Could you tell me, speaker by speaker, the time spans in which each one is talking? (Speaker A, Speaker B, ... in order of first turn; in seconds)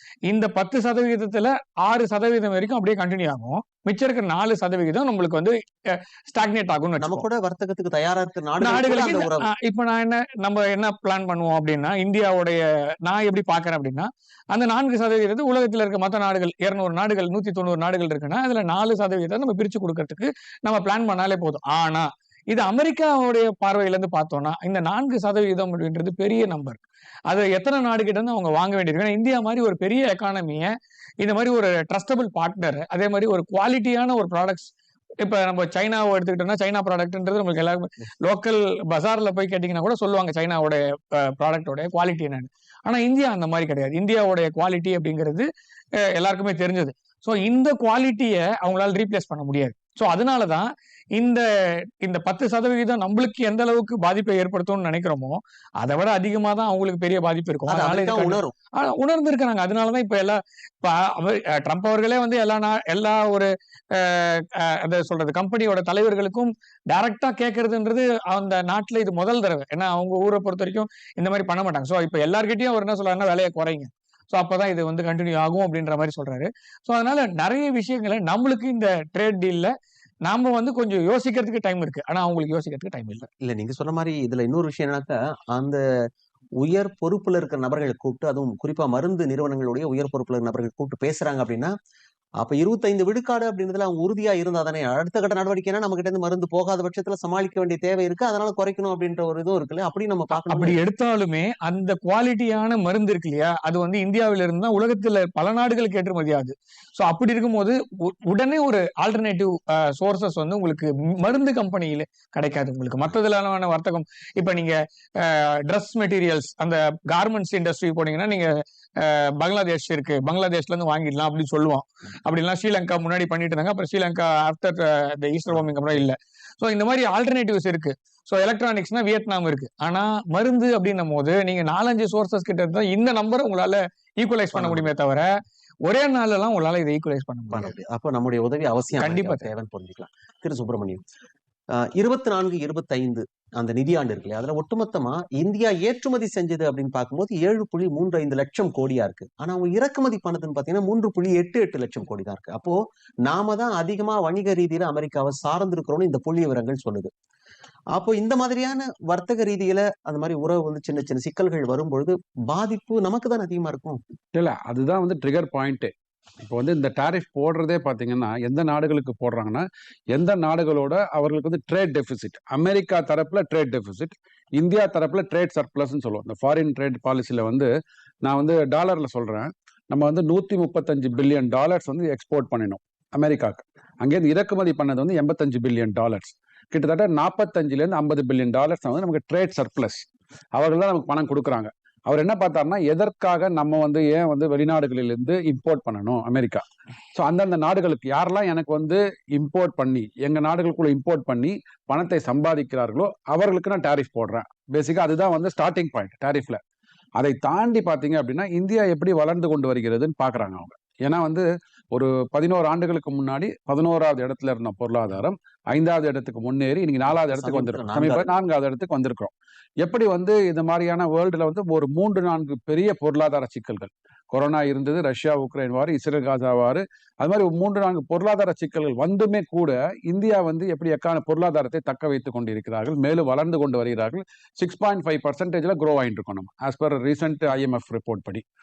Speaker A: 0.3-7.2, 8.6-34.7, 35.2-45.5, 46.0-79.7, 80.3-83.3, 100.3-135.3, 135.9-137.7, 139.0-139.5
Speaker B: 7.0-9.5, 57.7-58.5, 83.4-85.8, 86.6-91.7, 92.4-100.8, 134.5-134.9, 137.5-141.0, 141.7-157.1, 157.9-164.0, 217.1-218.3
Speaker C: 164.3-177.7, 178.2-196.6, 197.2-206.6, 207.2-238.4